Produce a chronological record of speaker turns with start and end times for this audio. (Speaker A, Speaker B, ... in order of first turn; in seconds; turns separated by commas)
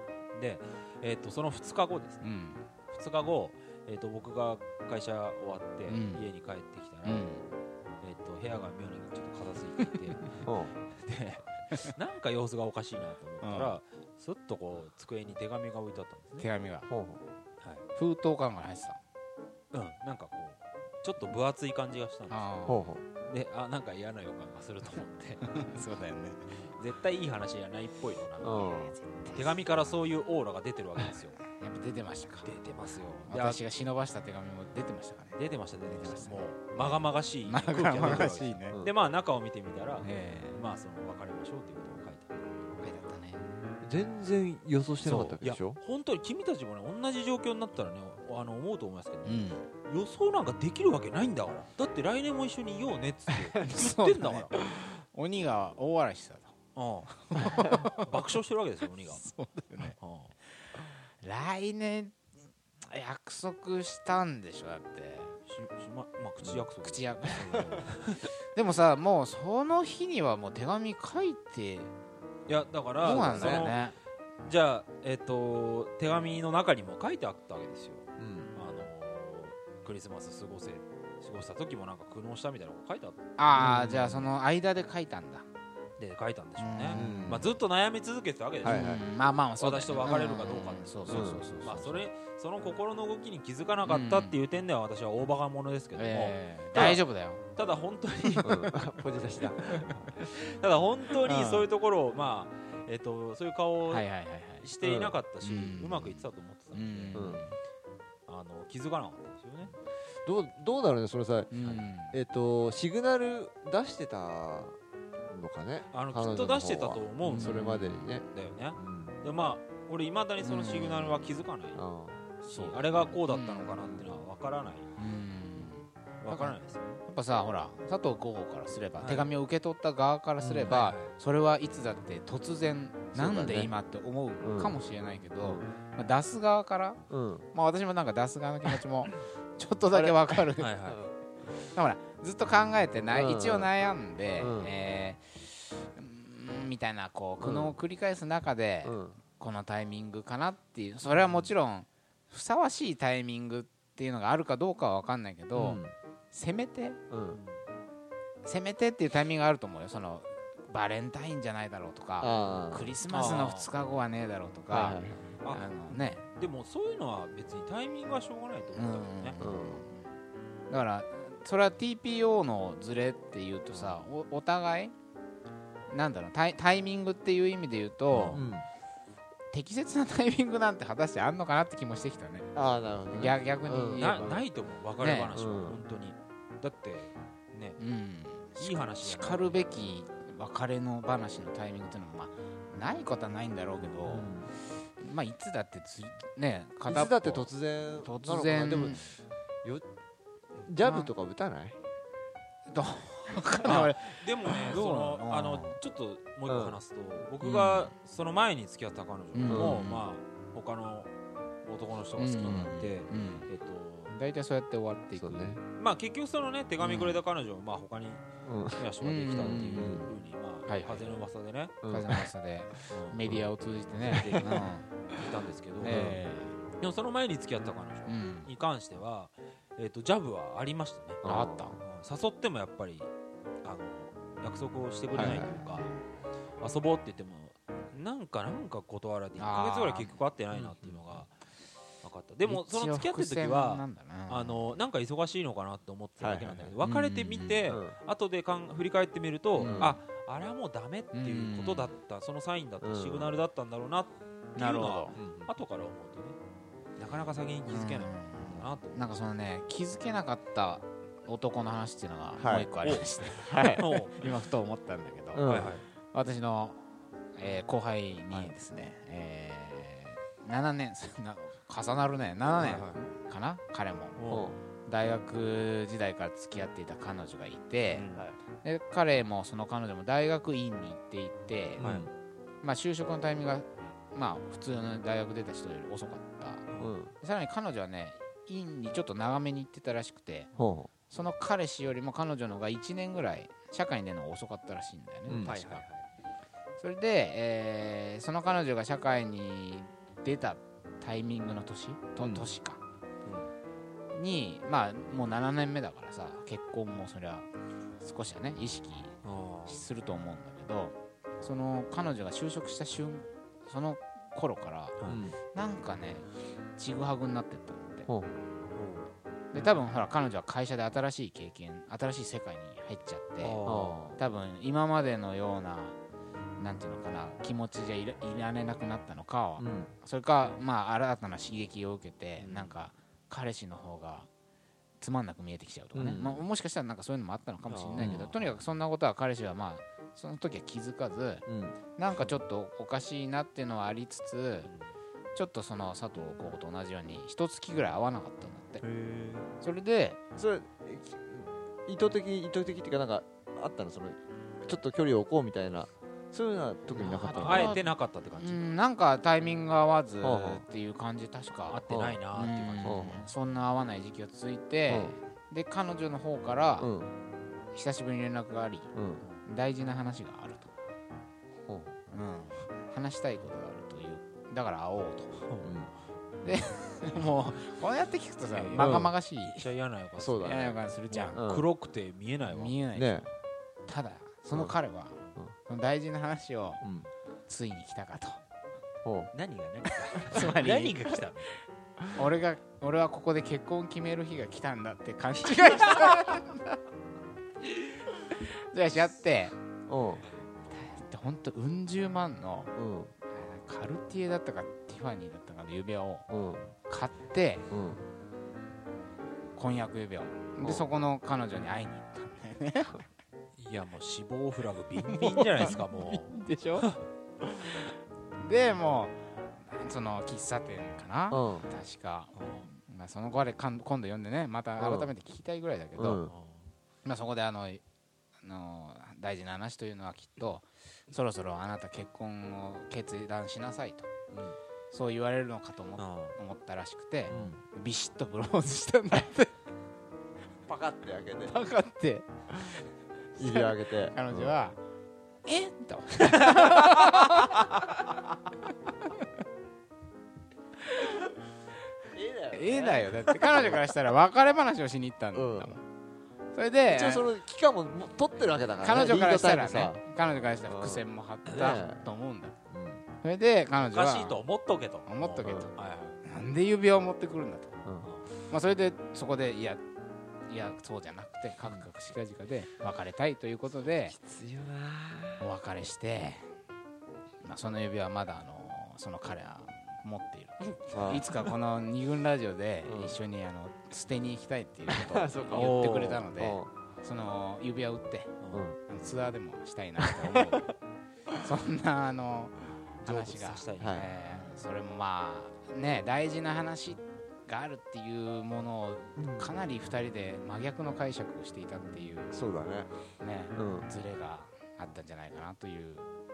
Speaker A: 0.3-2.3, Speaker B: 2.2-2.6, Speaker A: 2.9-7.3, Speaker B: 5.9-6.2, Speaker B: 7.0-7.4, Speaker A: 8.0-16.4, Speaker C: 10.4-10.7, Speaker B: 13.4-13.8, Speaker B: 16.4-16.9, Speaker C: 16.9-17.2, Speaker B: 17.9-19.0, Speaker A: 19.7-22.5, Speaker B: 22.3-22.8, Speaker C: 22.7-23.0, Speaker A: 23.2-25.5, Speaker B: 25.4-26.6, Speaker A: 26.8-31.5, Speaker C: 28.4-28.9, Speaker B: 28.7-30.0, Speaker B: 31.5-35.4, Speaker A: 32.4-33.6, Speaker A: 35.3-42.8, Speaker B: 35.9-36.4, Speaker B: 37.5-38.8, Speaker C: 38.0-38.9, Speaker B: 40.0-40.6, Speaker B: 42.8-43.4, Speaker C: 43.8-45.8, Speaker B: 45.0-45.4, Speaker A: 45.1-54.6, Speaker B: 49.2-49.6, Speaker B: 53.5-56.5, Speaker A: 56.8-59.2, Speaker B: 57.2-58.1, Speaker C: 57.6-57.8, Speaker B: 59.2-60.0, Speaker A: 59.9-60.3, Speaker B: 61.2-62.2, Speaker B: 62.9-65.3, Speaker A: 65.5-68.3, Speaker B: 66.8-67.8, Speaker B: 68.5-71.9, Speaker A: 72.5-73.8, Speaker C: 73.0-73.7, Speaker B: 73.0-73.9, Speaker A: 74.4-83.2, Speaker C: 78.2-78.5, Speaker B: 83.4-85.4, Speaker C: 83.5-84.0, Speaker A: 86.0-89.0, Speaker B: 86.6-87.4, Speaker C: 86.9-87.5, Speaker C: 88.6-89.0, Speaker B: 88.6-92.0, Speaker A: 89.6-97.0, Speaker C: 91.1-91.4, Speaker B: 93.8-94.4, Speaker B: 96.0-97.4, Speaker A: 97.5-98.7, Speaker B: 98.2-98.7, Speaker C: 98.4-100.1, Speaker B: 99.7-100.1, Speaker A: 100.3-104.1, Speaker B: 101.2-101.7, Speaker B: 103.9-104.7, Speaker A: 104.6-107.4, Speaker C: 104.8-105.2, Speaker B: 105.4-107.6, Speaker C: 107.1-107.4, Speaker A: 108.3-109.7, Speaker C: 110.2-114.8, Speaker B: 111.5-112.1, Speaker C: 115.3-118.2, Speaker A: 115.9-121.8, Speaker B: 117.2-117.5, Speaker C: 118.8-119.3, Speaker B: 120.4-121.3, Speaker C: 121.7-123.2, Speaker A: 122.4-125.0, Speaker B: 123.3-123.8, Speaker C: 123.8-124.2, Speaker B: 125.0-137.0, Speaker A: 126.2-127.0, Speaker A: 129.0-129.3, Speaker C: 130.4-130.8, Speaker A: 130.7-131.1, Speaker C: 133.1-133.7, Speaker C: 134.4-134.8, Speaker C: 135.4-135.7, Speaker C: 137.1-137.4, Speaker B: 137.5-140.8, Speaker C: 139.9-140.2, Speaker A: 140.6-141.0, Speaker C: 140.8-141.1, Speaker B: 141.7-157.0, Speaker C: 143.1-143.7, Speaker C: 144.4-144.7, Speaker C: 147.4-147.8, Speaker C: 148.8-149.2, Speaker C: 151.1-151.5, Speaker C: 155.5-155.9, Speaker C: 157.1-157.4, Speaker A: 157.3-157.6, Speaker B: 158.4-166.2, Speaker C: 162.2-162.9, Speaker A: 163.1-163.7, Speaker C: 164.7-165.4, Speaker A: 165.4-169.3, Speaker B: 168.8-170.0, Speaker C: 169.4-169.8, Speaker B: 170.7-174.9, Speaker C: 173.7-174.0, Speaker B: 175.9-178.5, Speaker A: 178.1-178.5, Speaker C: 178.3-178.7, Speaker B: 179.5-182.5, Speaker C: 182.5-184.4, Speaker B: 183.1-184.4, Speaker A: 184.0-187.8, Speaker B: 185.0-185.3, Speaker C: 185.3-185.8, Speaker B: 187.8-194.3, Speaker A: 188.6-189.9, Speaker C: 194.0-194.5, Speaker B: 195.0-197.5, Speaker C: 196.8-199.8, Speaker B: 198.0-199.0, Speaker C: 200.6-201.8, Speaker B: 200.8-201.1, Speaker B: 202.7-205.8, Speaker A: 203.6-211.1, Speaker C: 206.5-206.8, Speaker C: 207.4-207.9, Speaker B: 209.3-210.0, Speaker C: 209.5-209.8, Speaker A: 211.6-214.2, Speaker B: 212.2-213.5, Speaker B: 214.1-215.6, Speaker C: 215.1-215.6, Speaker A: 215.8-221.8, Speaker C: 216.8-217.1, Speaker C: 218.4-218.8, Speaker B: 219.0-220.1, Speaker C: 219.4-220.1, Speaker B: 220.7-221.2, Speaker C: 221.8-222.2, Speaker B: 221.9-224.8, Speaker A: 222.9-223.4, Speaker A: 224.0-226.2, Speaker C: 224.1-224.4, Speaker B: 225.8-226.6, Speaker C: 225.8-226.2, Speaker A: 226.8-231.2, Speaker B: 228.1-228.5, Speaker C: 231.2-231.8, Speaker B: 231.2-231.8, Speaker A: 231.8-233.1, Speaker A: 233.6-235.9, Speaker C: 235.1-235.6, Speaker B: 235.1-236.0, Speaker A: 236.6-241.3, Speaker B: 239.4-240.2, Speaker C: 240.5-241.2, Speaker A: 242.0-256.4, Speaker B: 242.4-244.7, Speaker C: 246.2-246.8, Speaker B: 246.8-247.6, Speaker C: 247.7-247.9, Speaker B: 249.6-249.9, Speaker C: 249.6-250.0, Speaker B: 251.1-251.9, Speaker C: 252.8-253.3, Speaker B: 254.6-255.1, Speaker C: 255.1-255.5, Speaker A: 257.0-259.2, Speaker B: 257.7-274.2, Speaker C: 262.4-262.7, Speaker A: 262.8-263.1, Speaker C: 263.4-263.9, Speaker A: 263.6-264.2, Speaker C: 265.3-265.8, Speaker A: 265.4-265.8, Speaker A: 272.6-273.0, Speaker A: 274.2-274.5, Speaker C: 274.3-274.6, Speaker B: 274.9-278.1, Speaker A: 277.9-278.3, Speaker B: 278.6-281.9, Speaker A: 281.8-282.1, Speaker C: 281.8-282.1, Speaker B: 282.6-286.6, Speaker A: 286.7-286.9, Speaker C: 286.8-287.1, Speaker B: 287.2-290.5, Speaker C: 290.6-290.9, Speaker B: 291.1-295.8, Speaker C: 295.3-295.6, Speaker A: 295.3-296.0, Speaker B: 296.8-302.8, Speaker A: 302.2-302.5, Speaker B: 304.1-307.5, Speaker B: 308.0-314.9, Speaker A: 309.2-309.8, Speaker C: 315.1-315.4, Speaker B: 315.5-318.1, Speaker C: 318.1-318.3, Speaker A: 318.7-319.1, Speaker B: 319.5-323.6, Speaker A: 323.4-323.9, Speaker C: 323.6-324.2, Speaker B: 324.2-326.0, Speaker B: 326.6-334.3, Speaker C: 329.6-329.9, Speaker C: 332.4-332.7, Speaker B: 335.0-341.4, Speaker C: 335.9-336.4, Speaker A: 337.6-338.6, Speaker C: 338.0-338.3, Speaker C: 341.5-341.8, Speaker B: 341.9-344.7, Speaker A: 344.6-344.9, Speaker B: 345.3-348.8, Speaker C: 348.8-349.5, Speaker B: 349.6-350.2, Speaker C: 350.3-357.8, Speaker B: 356.9-361.8, Speaker A: 357.3-358.6, Speaker C: 360.2-360.6, Speaker A: 361.7-363.3, Speaker C: 361.9-362.2, Speaker B: 362.3-366.9, Speaker C: 362.8-363.2, Speaker C: 364.9-365.1, Speaker C: 366.8-367.1, Speaker B: 367.7-368.9, Speaker C: 368.9-369.2, Speaker B: 369.4-370.7, Speaker C: 371.7-372.0, Speaker B: 372.1-375.5, Speaker A: 375.4-375.8, Speaker C: 375.6-375.9, Speaker B: 376.4-379.7, Speaker A: 377.2-377.5, Speaker A: 378.4-382.8, Speaker C: 378.7-379.1, Speaker C: 380.2-380.8, Speaker B: 380.4-381.4, Speaker C: 381.3-381.7, Speaker B: 382.5-383.3, Speaker C: 382.9-383.2, Speaker B: 383.9-386.8, Speaker C: 386.8-387.1, Speaker B: 387.5-388.4, Speaker C: 389.0-389.3, Speaker A: 389.3-391.6, Speaker B: 390.3-391.2, Speaker B: 392.1-396.6, Speaker A: 395.5-396.1, Speaker B: 398.3-399.5, Speaker C: 399.9-400.2, Speaker B: 400.7-402.7, Speaker C: 402.8-403.1, Speaker B: 403.3-406.3, Speaker C: 406.3-406.7, Speaker B: 406.8-407.7, Speaker C: 407.7-408.0, Speaker B: 409.5-413.0, Speaker C: 410.6-410.9, Speaker A: 413.6-417.0, Speaker B: 415.1-416.9, Speaker B: 418.4-426.2, Speaker C: 421.3-421.7, Speaker A: 422.3-422.7, Speaker C: 424.8-425.1, Speaker C: 426.0-426.3, Speaker A: 426.2-426.7, Speaker B: 427.0-427.8, Speaker B: 428.4-434.1, Speaker B: 434.9-439.6, Speaker A: 436.0-436.3, Speaker C: 437.3-437.6, Speaker A: 437.3-437.5, Speaker C: 440.6-441.6, Speaker B: 441.4-442.3, Speaker C: 443.4-444.5, Speaker B: 443.4-444.8, Speaker B: 445.4-447.9, Speaker C: 452.1-453.8, Speaker B: 452.5-455.8, Speaker C: 455.3-455.8, Speaker B: 456.5-457.2, Speaker C: 456.9-460.0, Speaker B: 458.8-462.5, Speaker C: 460.6-462.1, Speaker C: 462.7-463.0, Speaker B: 463.2-464.4, Speaker A: 463.9-466.2, Speaker B: 465.1-465.7, Speaker C: 465.4-465.7, Speaker B: 466.2-467.8, Speaker A: 468.0-468.3, Speaker B: 468.5-469.8, Speaker B: 470.5-474.2, Speaker C: 473.9-475.5, Speaker B: 475.4-476.5, Speaker B: 477.4-490.6, Speaker C: 480.9-481.4, Speaker C: 482.8-483.2, Speaker C: 484.9-485.8, Speaker A: 485.5-486.2, Speaker C: 486.3-486.7, Speaker C: 488.5-488.8, Speaker C: 490.2-490.6, Speaker B: 491.4-502.4, Speaker A: 493.0-494.6, Speaker C: 493.8-494.1, Speaker C: 499.1-499.5, Speaker C: 502.3-502.9, Speaker B: 503.2-506.1, Speaker C: 503.6-503.9